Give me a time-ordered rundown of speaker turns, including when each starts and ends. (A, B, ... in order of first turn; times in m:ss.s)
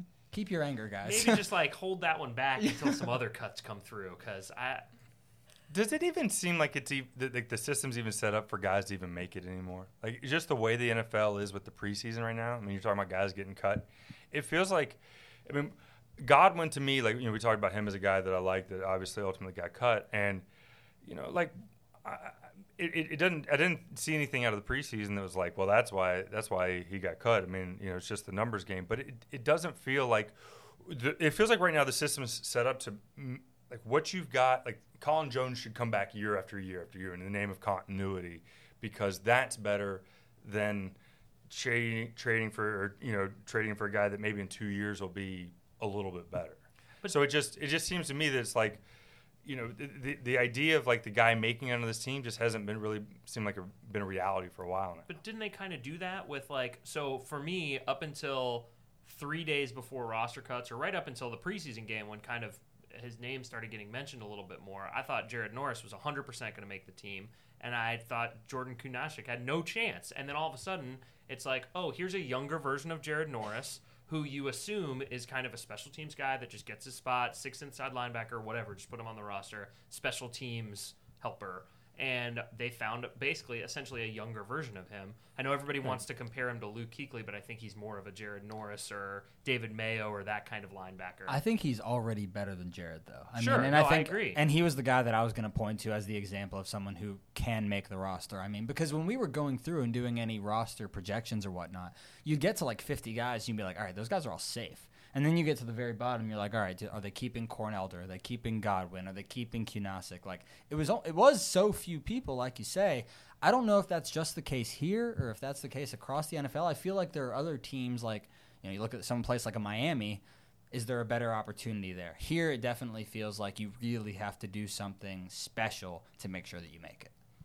0:00.3-0:01.4 A
0:01.0-0:04.8 B
0:02.6-0:03.0 A
0:05.7-0:20.4 C
0:21.0-0:40.9 C
0:41.5-0:48.8 C
0:49.4-0:55.1 C
0:55.1-1:31.4 B
1:31.3-2:07.1 A
1:33.4-1:34.4 B